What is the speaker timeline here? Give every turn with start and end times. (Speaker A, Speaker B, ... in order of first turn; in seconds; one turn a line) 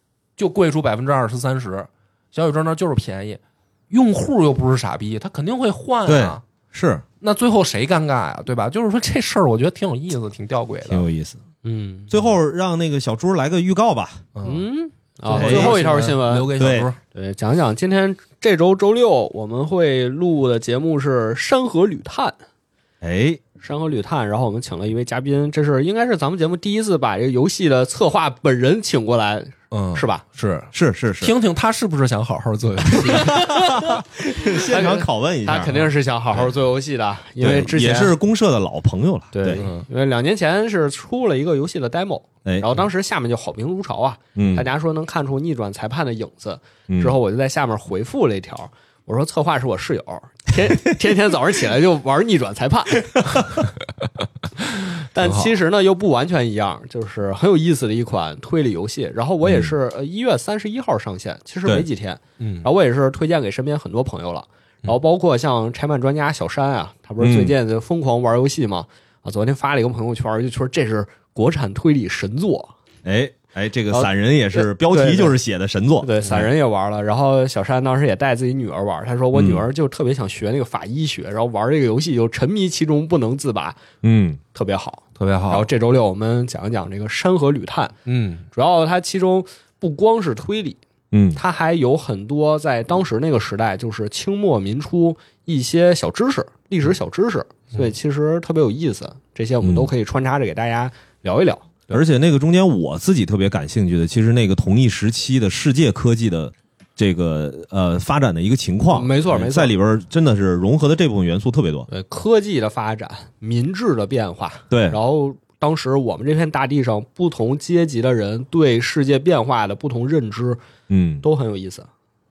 Speaker A: 0.4-6.4
Speaker B: 6.1-7.0
Speaker A: 7.2-11.1
Speaker B: 10.9-11.4
Speaker C: 11.6-12.1
Speaker B: 12.1-14.3
Speaker A: 14.3-14.6
Speaker C: 14.4-16.5
Speaker A: 15.3-17.0
Speaker B: 15.3-15.8
Speaker B: 16.6-16.9
Speaker C: 17.1-22.4
Speaker B: 23.0-23.4
Speaker C: 23.6-30.2
Speaker A: 29.7-33.9
Speaker B: 30.7-31.3
Speaker B: 33.3-35.9
Speaker C: 34.5-38.2
Speaker B: 37.4-39.6
Speaker C: 39.3-53.4
Speaker A: 39.6-39.9
Speaker B: 44.4-44.7
Speaker B: 46.9-47.2
Speaker C: 55.0-72.7
Speaker B: 59.5-59.7
Speaker A: 62.4-62.7
Speaker B: 67.2-67.5
Speaker B: 73.0-76.5
Speaker C: 73.9-75.4
Speaker C: 76.0-83.8
Speaker B: 79.3-79.7
Speaker B: 84.0-84.4
Speaker C: 84.5-87.9
Speaker A: 85.2-85.7
Speaker A: 88.1-88.5
Speaker C: 88.5-90.8
Speaker B: 91.1-91.4
Speaker C: 91.3-101.9
Speaker B: 99.6-99.9
Speaker B: 101.9-111.9
Speaker C: 108.9-109.7
Speaker C: 111.9-120.6
Speaker B: 114.7-115.0
Speaker B: 120.9-121.2
Speaker C: 121.2-121.9